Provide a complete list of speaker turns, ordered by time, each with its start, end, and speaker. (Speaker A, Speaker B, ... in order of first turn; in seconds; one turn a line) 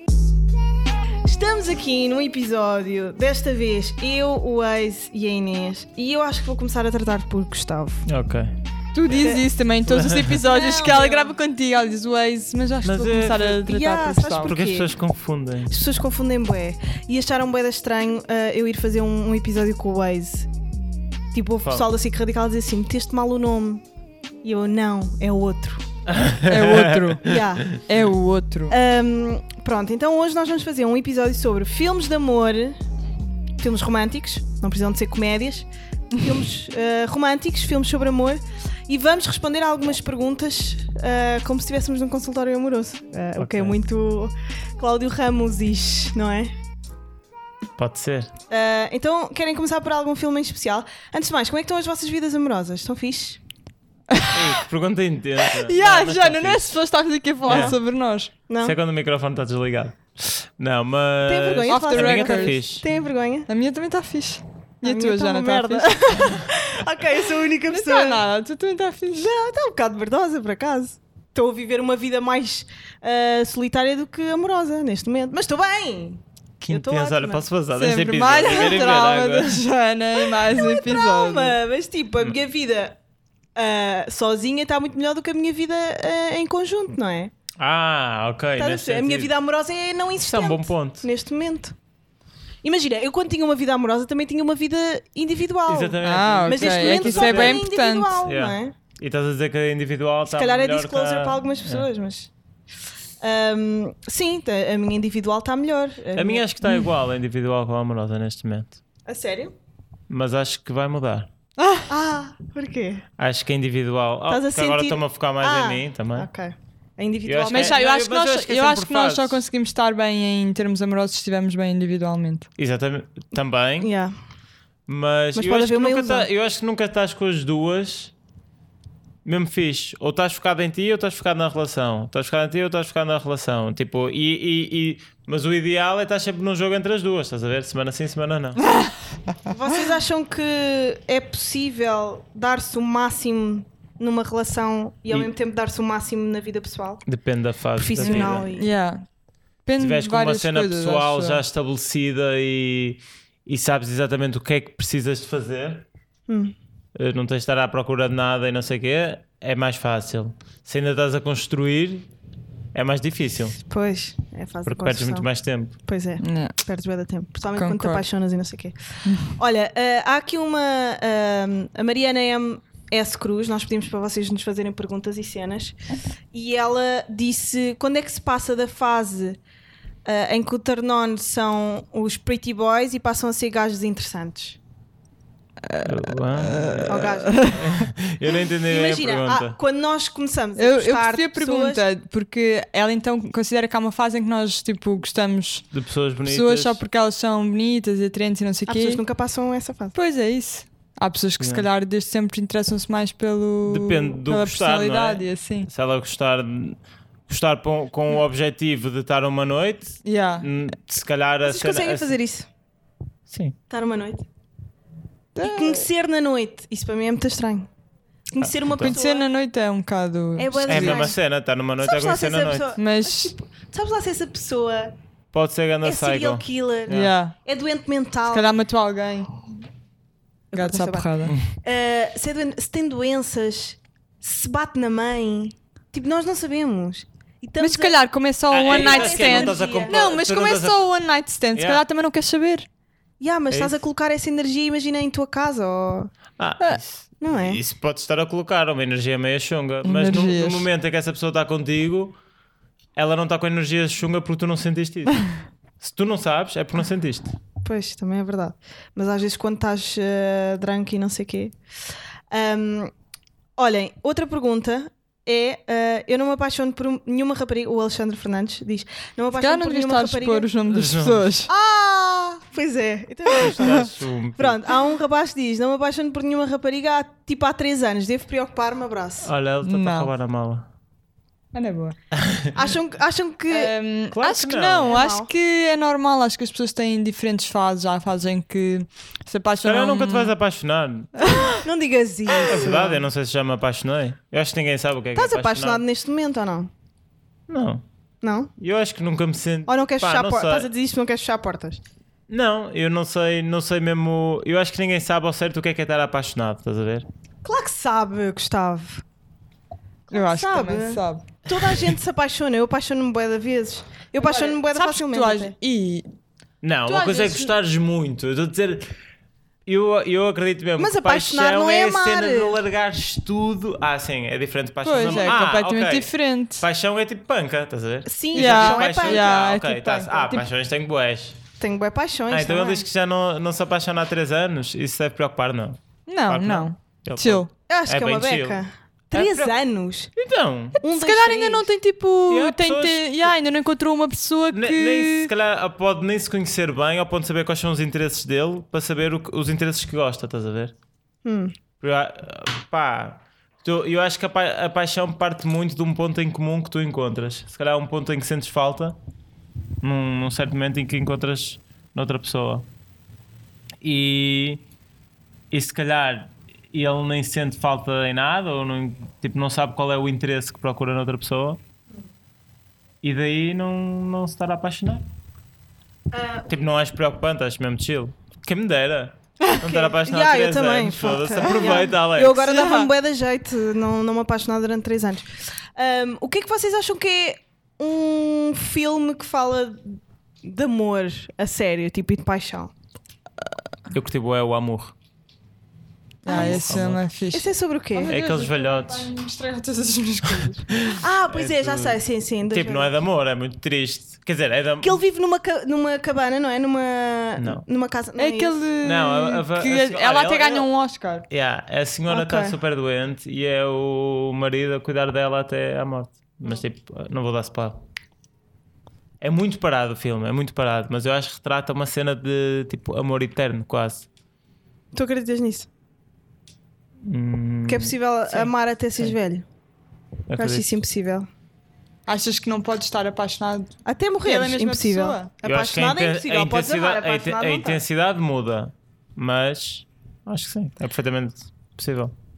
Speaker A: 1.2-8.1
Speaker B: 8.1-8.5
Speaker C: 8.9-14.5
Speaker B: 9.1-9.3
Speaker A: 9.1-9.4
Speaker B: 9.9-10.4
Speaker A: 10.4-11.4
Speaker B: 12.8-13.6
Speaker A: 13.5-14.9
Speaker B: 14.4-15.8
Speaker A: 15.7-20.5
Speaker A: 21.3-23.8
Speaker A: 24.4-25.8
Speaker B: 26.1-27.8
Speaker C: 26.4-28.7
Speaker A: 27.2-27.8
Speaker A: 28.7-32.8
Speaker A: 33.6-46.5
Speaker B: 43.4-43.8
Speaker B: 47.8-48.3
Speaker A: 48.5-53.4
Speaker C: 54.1-54.6
Speaker B: 54.3-56.7
Speaker C: 55.5-58.3
Speaker B: 57.5-57.8
Speaker A: 57.5-57.8
Speaker A: 58.5-58.7
Speaker B: 58.6-62.9
Speaker A: 61.2-63.5
Speaker C: 61.7-62.6
Speaker C: 63.5-66.3
Speaker A: 64.8-68.2
Speaker C: 67.7-69.3
Speaker A: 69.1-77.4
Speaker B: 76.6-79.6
Speaker C: 77.7-81.6
Speaker A: 80.3-83.0
Speaker A: 83.5-87.3
Speaker B: 87.6-89.3
Speaker A: 88.6-91.7
Speaker B: 90.2-91.0
Speaker A: 92.6-98.7
Speaker B: 95.7-97.6
Speaker C: 96.0-98.1
Speaker B: 98.2-101.9
Speaker A: 100.2-102.3
Speaker A: 103.2-106.4
Speaker B: 106.1-108.8
Speaker A: 109.0-109.5
Speaker B: 110.1-111.3
Speaker C: 111.6-111.8
Speaker A: 111.9-113.0
Speaker B: 113.2-116.3
Speaker A: 114.3-117.8
Speaker B: 117.2-119.4
Speaker C: 117.5-122.5
Speaker B: 122.6-123.9
Speaker A: 123.8-124.1
Speaker B: 124.9-128.1
Speaker A: 125.3-126.3
Speaker B: 129.2-138.7
Speaker C: 138.6-138.9
Speaker A: 139.5-147.0
Speaker B: 147.1-148.5
Speaker A: 147.8-148.7
Speaker C: 148.0-149.0
Speaker C: 149.6-151.4
Speaker B: 149.8-155.8
Speaker A: 156.3-156.5
Speaker B: 156.9-162.1
Speaker B: 162.7-163.6
Speaker A: 163.7-168.8
Speaker B: 164.6-165.8
Speaker C: 166.2-166.5
Speaker C: 167.6-168.0
Speaker C: 169.0-169.4
Speaker A: 169.3-175.7
Speaker A: 176.3-179.4
Speaker A: 180.0-184.6
Speaker C: 185.6-187.7
Speaker B: 185.8-189.6
Speaker A: 186.8-187.7
Speaker A: 188.6-191.8
Speaker C: 190.6-195.7
Speaker B: 195.7-196.8
Speaker C: 196.2-199.0
Speaker A: 198.7-199.9
Speaker C: 199.9-205.7
Speaker B: 201.4-201.7
Speaker B: 203.7-212.2
Speaker C: 210.0-210.5
Speaker A: 211.4-212.5
Speaker B: 213.3-213.6
Speaker A: 213.7-214.2
Speaker C: 215.3-215.8
Speaker A: 215.4-217.7
Speaker A: 218.3-219.3
Speaker B: 218.4-219.0
Speaker C: 218.8-221.1
Speaker A: 220.4-221.2
Speaker B: 220.7-222.7
Speaker A: 221.8-224.9
Speaker C: 222.8-223.3
Speaker B: 225.3-227.1
Speaker A: 225.8-228.5
Speaker C: 226.9-227.3
Speaker C: 228.3-229.4
Speaker A: 230.5-237.9
Speaker C: 230.5-231.3
Speaker B: 231.3-231.5
Speaker C: 237.6-242.7
Speaker B: 238.5-240.8
Speaker A: 238.7-240.0
Speaker B: 241.5-241.8
Speaker A: 243.2-246.1
Speaker B: 243.5-243.8
Speaker B: 246.4-252.2
Speaker A: 247.2-247.6
Speaker C: 249.8-250.7
Speaker B: 252.9-255.3
Speaker B: 255.8-257.4
Speaker A: 257.6-261.5
Speaker A: 262.3-262.9
Speaker A: 263.6-270.5
Speaker C: 269.4-271.5
Speaker B: 270.7-271.3
Speaker A: 271.5-279.3
Speaker B: 273.4-274.7
Speaker C: 273.5-273.8
Speaker B: 279.2-280.7
Speaker C: 279.6-280.1
Speaker C: 281.5-281.9
Speaker B: 282.1-282.6
Speaker A: 282.5-283.7
Speaker C: 283.5-290.3
Speaker B: 284.1-284.9
Speaker A: 284.8-285.3
Speaker B: 289.6-291.4
Speaker C: 291.2-291.6
Speaker A: 291.6-293.0
Speaker B: 292.5-295.8
Speaker A: 295.1-296.7
Speaker B: 297.5-297.8
Speaker A: 298.2-298.5
Speaker B: 298.6-300.7
Speaker A: 299.7-301.8
Speaker B: 302.3-307.1
Speaker A: 307.4-309.0
Speaker A: 310.1-315.5
Speaker C: 310.1-311.2
Speaker C: 314.2-316.1
Speaker B: 316.6-318.9
Speaker C: 316.9-317.5
Speaker B: 319.6-331.4
Speaker A: 320.8-322.6
Speaker C: 324.8-326.6
Speaker A: 328.1-329.5
Speaker C: 328.3-330.4
Speaker A: 331.6-332.8
Speaker B: 332.3-338.6
Speaker C: 336.1-337.5
Speaker A: 337.7-340.1
Speaker B: 339.1-339.5
Speaker B: 340.1-340.8
Speaker A: 340.8-341.7
Speaker C: 340.8-345.3
Speaker B: 342.3-343.3
Speaker B: 344.5-350.7
Speaker A: 351.2-351.5
Speaker B: 351.8-359.0
Speaker B: 359.8-362.7
Speaker B: 363.8-364.6
Speaker B: 365.5-371.6
Speaker B: 373.0-375.1
Speaker A: 376.1-376.5
Speaker B: 376.5-382.4
Speaker A: 379.6-392.7
Speaker C: 382.3-382.9
Speaker B: 393.9-394.9
Speaker C: 396.2-400.9
Speaker A: 396.2-398.1
Speaker B: 396.3-397.0
Speaker B: 398.1-399.1
Speaker B: 400.4-405.0
Speaker A: 400.9-402.9
Speaker A: 404.8-408.6
Speaker B: 407.4-407.6
Speaker C: 408.2-411.2
Speaker B: 408.8-410.7
Speaker B: 411.3-417.8
Speaker A: 412.1-412.6
Speaker B: 419.2-424.1
Speaker A: 424.9-425.7
Speaker B: 427.0-429.1
Speaker A: 427.7-429.4
Speaker B: 430.3-430.7
Speaker A: 430.3-431.3
Speaker C: 432.1-435.3
Speaker A: 433.8-437.8
Speaker B: 435.4-442.1